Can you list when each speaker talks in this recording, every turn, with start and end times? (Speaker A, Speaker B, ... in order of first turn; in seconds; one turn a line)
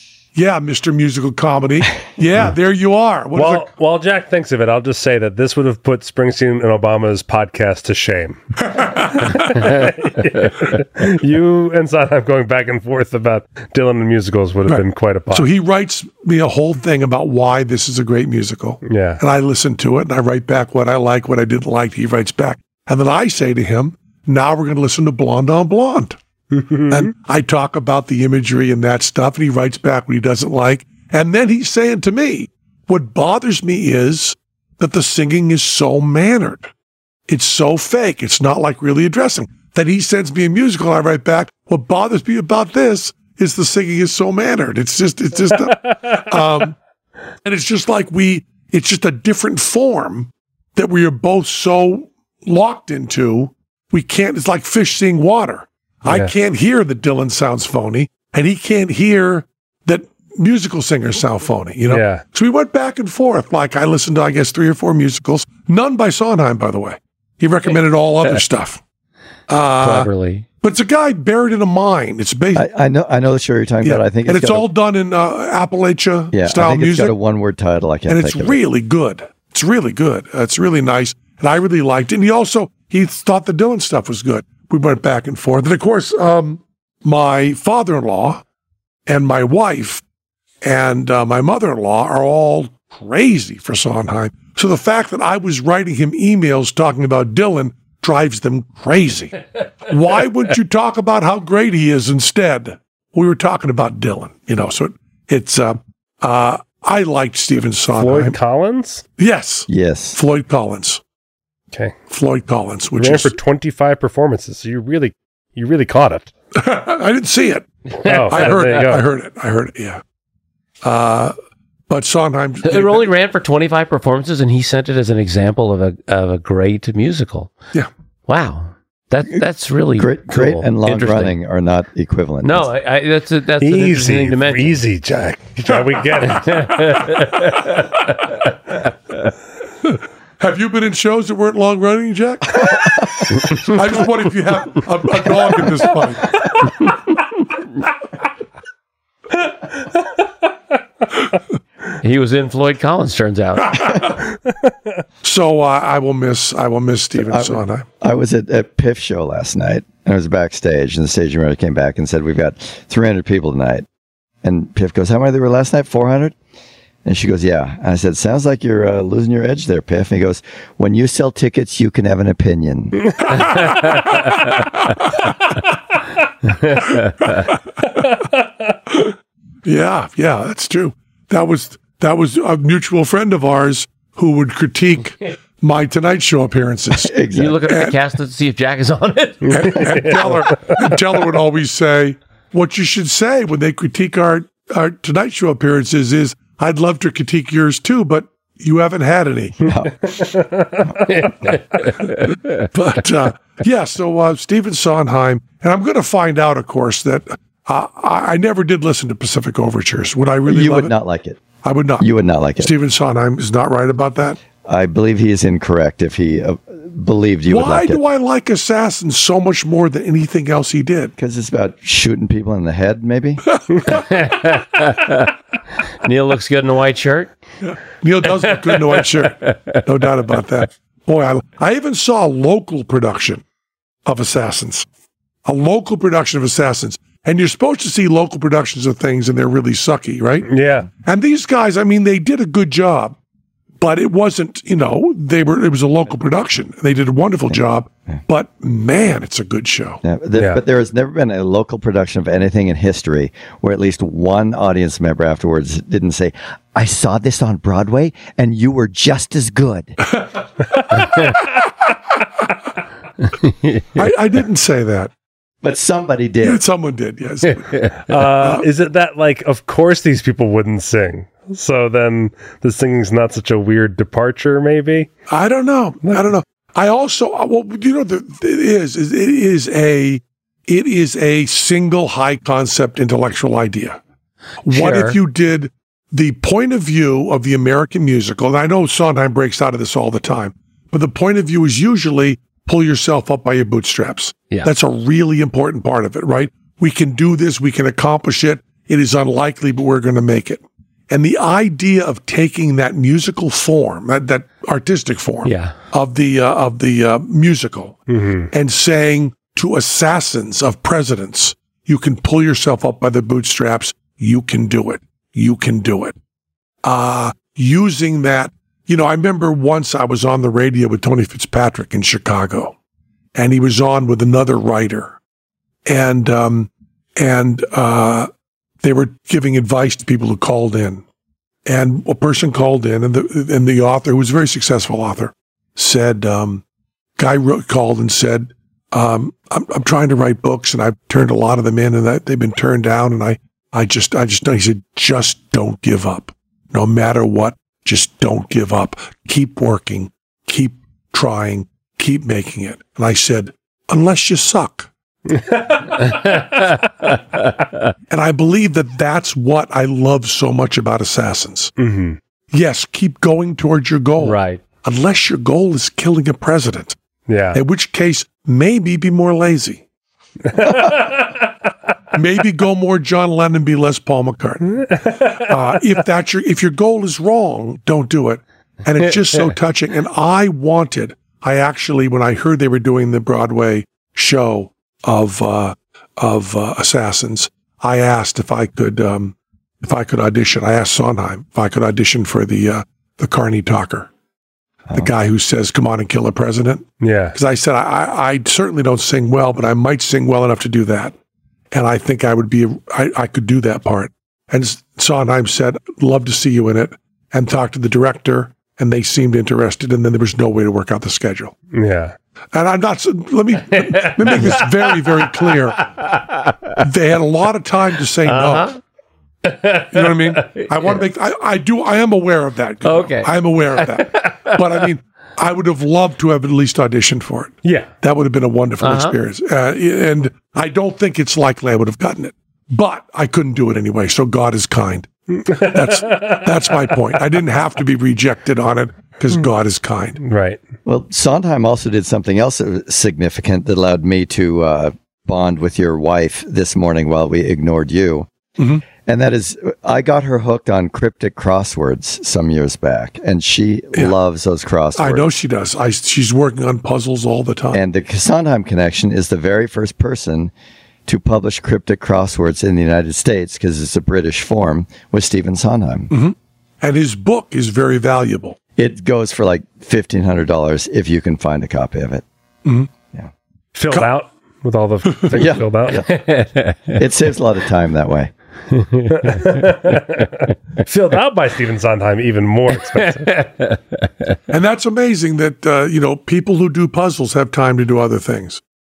Speaker A: 0.3-3.7
Speaker B: 3.3-15.5
Speaker A: 8.8-9.2
Speaker A: 14.7-26.2
Speaker B: 18.8-19.2
Speaker B: 26.5-27.1
Speaker A: 26.9-36.7
Speaker A: 37.3-46.8
Speaker A: 47.4-68.8
Speaker B: 56.1-56.3
Speaker B: 61.9-62.2
Speaker A: 69.5-70.1
Speaker C: 69.8-70.4
Speaker A: 70.6-72.6
Speaker D: 72.5-74.7
Speaker A: 73.8-77.1
Speaker D: 76.3-78.6
Speaker A: 78.1-88.4
Speaker A: 89.1-90.0
Speaker A: 90.6-108.4
Speaker B: 107.9-109.0
Speaker A: 109.2-111.0
Speaker D: 109.7-110.2
Speaker A: 112.1-113.4
Speaker B: 113.0-116.3
Speaker A: 116.5-120.0
Speaker B: 118.0-119.0
Speaker C: 118.0-118.6
Speaker A: 120.8-121.3
Speaker A: 121.9-123.1
Speaker C: 122.6-127.5
Speaker C: 128.3-131.3
Speaker D: 130.0-132.7
Speaker C: 132.4-134.8
Speaker B: 133.6-137.1
Speaker C: 136.3-137.9
Speaker A: 140.4-146.5
Speaker C: 152.0-154.1
Speaker A: 153.8-154.0
Speaker A: 155.2-157.8
Speaker D: 157.2-163.8
Speaker D: 164.4-166.3
Speaker D: 167.0-173.3
Speaker A: 178.9-179.1
Speaker A: 179.6-187.1
Speaker D: 187.0-187.6
Speaker C: 187.3-190.2
Speaker A: 187.7-188.0
Speaker B: 189.4-190.3
Speaker A: 189.5-199.7
Speaker D: 199.6-199.9
Speaker B: 200.1-201.5
Speaker C: 201.1-202.6
Speaker A: 202.6-210.9
Speaker D: 210.4-211.4
Speaker A: 211.6-214.4
Speaker D: 212.0-212.7
Speaker D: 214.6-218.0
Speaker A: 217.5-221.1
Speaker D: 221.2-223.4
Speaker C: 223.9-225.3
Speaker C: 226.0-227.3
Speaker A: 227.6-233.4
Speaker C: 228.5-229.8
Speaker A: 234.1-234.8
Speaker A: 235.4-240.5
Speaker B: 240.4-240.9
Speaker A: 241.0-243.2
Speaker A: 243.8-250.0
Speaker D: 250.0-260.0
Speaker B: 250.4-250.6
Speaker C: 263.3-264.0
Speaker A: 263.9-265.1
Speaker D: 265.6-266.6
Speaker A: 266.4-268.7
Speaker B: 268.1-275.1
Speaker A: 275.3-284.0
Speaker A: 284.6-316.1
Speaker C: 284.7-285.2
Speaker C: 305.4-305.8
Speaker B: 308.1-308.5
Speaker A: 316.8-322.8
Speaker A: 323.3-325.2
Speaker A: 325.9-328.3
Speaker A: 328.8-331.0
Speaker A: 331.6-336.6
Speaker A: 337.2-354.9
Speaker B: 355.3-356.2
Speaker C: 356.1-356.6
Speaker A: 358.1-361.7
Speaker B: 361.8-362.2
Speaker A: 362.5-366.9
Speaker C: 364.2-364.6
Speaker B: 367.3-367.6
Speaker A: 367.5-369.8
Speaker B: 370.5-371.4
Speaker A: 372.1-394.1
Speaker B: 374.9-375.5
Speaker A: 394.9-401.1
Speaker B: 397.0-397.4
Speaker A: 401.7-411.5
Speaker B: 411.7-412.1
Speaker A: 412.5-415.9
Speaker C: 413.7-416.8
Speaker A: 416.8-418.7
Speaker C: 418.2-418.8
Speaker C: 419.4-421.0
Speaker A: 419.9-440.2
Speaker C: 422.8-424.9
Speaker B: 427.6-427.9
Speaker C: 428.8-429.2
Speaker B: 435.4-436.5
Speaker B: 440.2-440.6
Speaker D: 440.8-448.3
Speaker A: 448.6-448.8
Speaker D: 449.0-455.3
Speaker A: 455.0-457.8
Speaker D: 457.7-460.5
Speaker D: 461.1-466.1
Speaker A: 466.1-468.6
Speaker D: 468.8-472.2
Speaker B: 473.7-476.1
Speaker D: 475.3-476.2
Speaker C: 476.1-477.0
Speaker D: 476.9-478.3
Speaker C: 478.7-479.6
Speaker B: 479.1-483.4
Speaker C: 482.9-484.1
Speaker A: 484.5-488.6